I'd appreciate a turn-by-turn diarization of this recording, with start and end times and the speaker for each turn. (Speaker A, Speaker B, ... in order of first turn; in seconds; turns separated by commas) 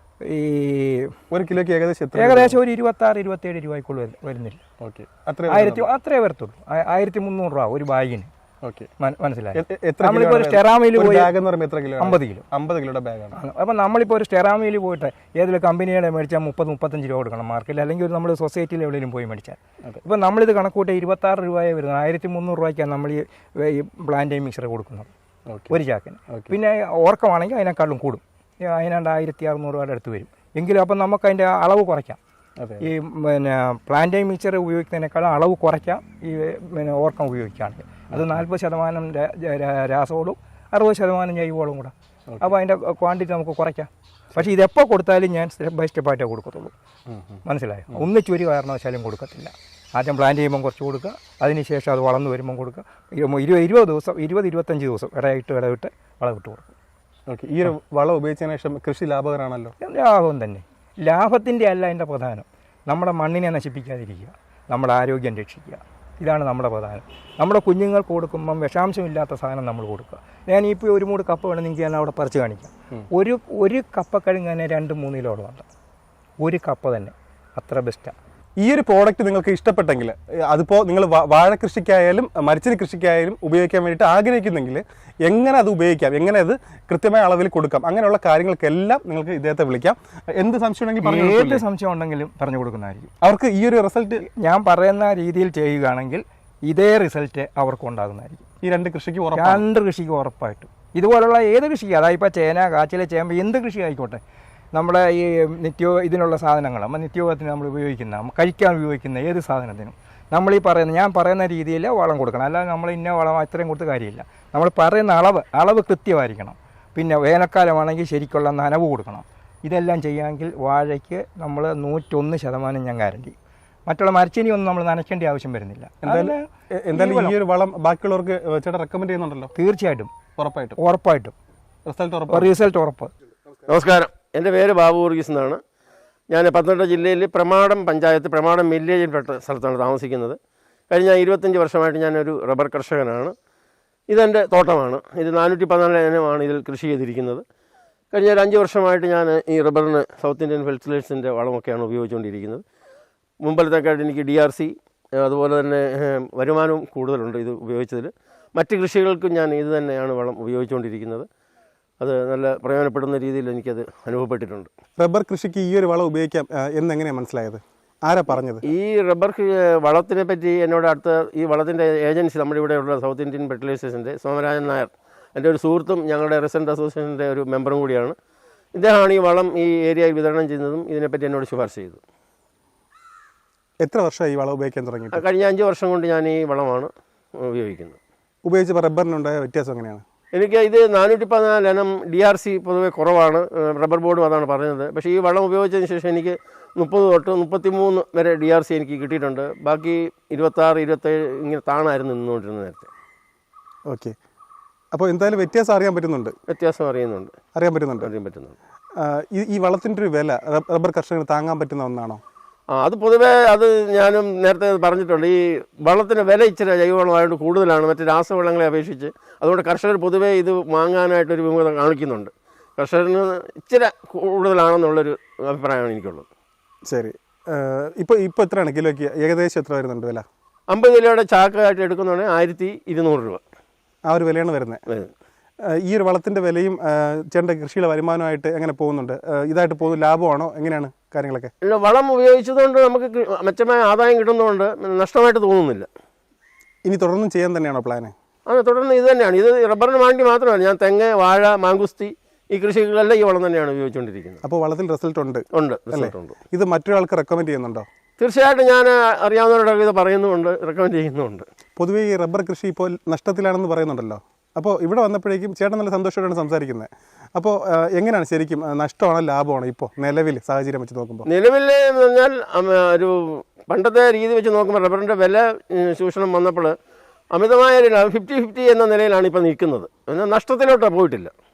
Speaker A: 0.2-1.1, Speaker B: 1.3-2.6, Speaker A: 2.1-4.6, Speaker B: 4.8-5.9, Speaker A: 5.5-8.3, Speaker B: 8.6-8.9, Speaker A: 9.0-11.3, Speaker B: 9.5-13.4, Speaker A: 12.0-12.4, Speaker A: 13.3-25.1, Speaker B: 25.5-25.8, Speaker A: 25.7-32.2, Speaker B: 32.6-32.8, Speaker A: 32.8-46.7, Speaker B: 38.1-38.4, Speaker B: 47.1-47.4, Speaker A: 47.4-56.7, Speaker B: 57.3-59.7, Speaker A: 59.8-75.7, Speaker A: 76.4-78.1, Speaker B: 78.6-91.6, Speaker A: 91.0-93.1, Speaker B: 93.2-94.2, Speaker A: 94.2-98.5, Speaker B: 98.6-99.6, Speaker A: 99.3-104.2, Speaker A: 104.7-123.3, Speaker A: 123.9-127.4, Speaker B: 126.0-129.5, Speaker A: 129.5-130.1, Speaker B: 130.4-130.8, Speaker A: 130.8-131.3, Speaker B: 131.8-132.5, Speaker A: 132.3-133.1, Speaker C: 133.7-135.6, Speaker C: 136.3-140.4, Speaker C: 140.9-143.3, Speaker C: 144.1-147.4, Speaker C: 148.1-152.6, Speaker C: 153.4-161.2, Speaker C: 162.0-164.7, Speaker B: 165.0-168.6, Speaker C: 168.6-178.2, Speaker C: 178.7-182.0, Speaker B: 183.8-185.2, Speaker C: 185.1-188.0, Speaker B: 188.4-190.0, Speaker C: 190.3-202.9, Speaker B: 204.9-206.3, Speaker C: 206.5-207.3, Speaker B: 207.6-208.1, Speaker C: 208.0-208.5, Speaker B: 209.0-212.2, Speaker C: 212.8-226.2, Speaker B: 226.9-230.2, Speaker C: 230.7-233.4, Speaker B: 234.1-234.8, Speaker B: 235.8-241.5, Speaker C: 241.6-245.9, Speaker B: 246.8-248.1, Speaker C: 248.5-254.4, Speaker B: 254.4-257.9, Speaker C: 255.5-256.4, Speaker C: 258.2-261.5, Speaker B: 261.8-271.3, Speaker C: 271.3-276.7, Speaker C: 277.3-281.3